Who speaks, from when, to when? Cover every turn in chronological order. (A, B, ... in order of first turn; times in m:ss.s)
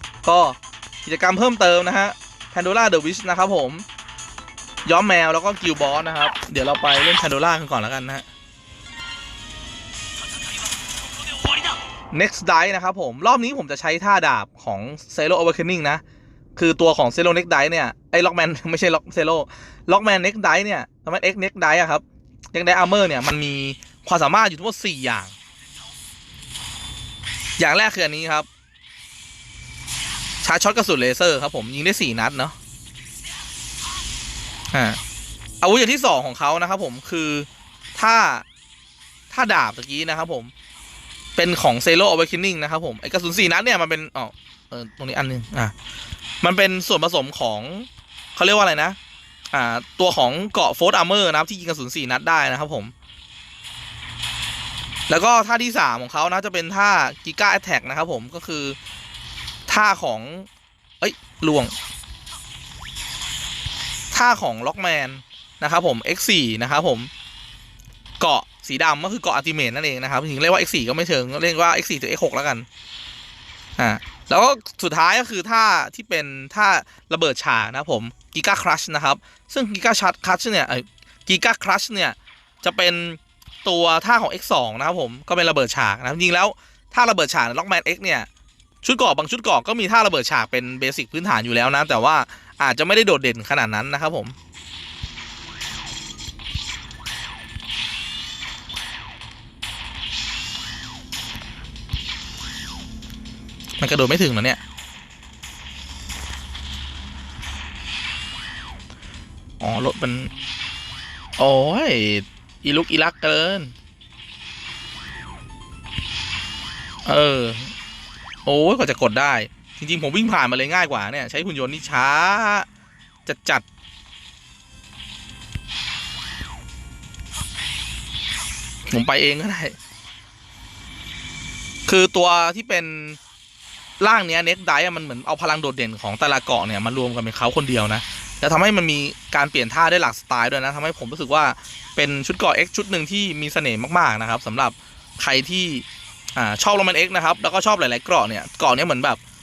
0:00.2-0:03.8 A
0:04.8-0:08.2 A
0:12.1-0:16.0 A
0:16.6-0:25.3 A
0:27.6-0:28.5 A
0:30.4-0:32.6 A
0:34.7-0:35.0 A
0:35.6-0:38.4 A
0:39.3-0:40.5 A
0:41.4-0:45.7 A
0:46.4-0:49.0 A
0:49.5-0:52.9 A
0:55.1-0:58.8 A
0:59.7-1:00.5 A
1:01.0-1:01.7 A
1:04.1-1:07.1 A
1:08.2-1:12.7 A
1:13.8-1:28.3 A
1:28.8-1:34.4 A
1:43.8-1:44.6 A
1:49.6-1:50.3 A
1:51.4-1:53.7 A
1:57.1-1:57.7 A
1:58.4-2:02.7 A
2:03.3-2:03.6 A
2:08.9-2:09.8 A
2:11.9-2:13.2 A
2:14.0-2:25.8 A
2:26.4-2:29.2 A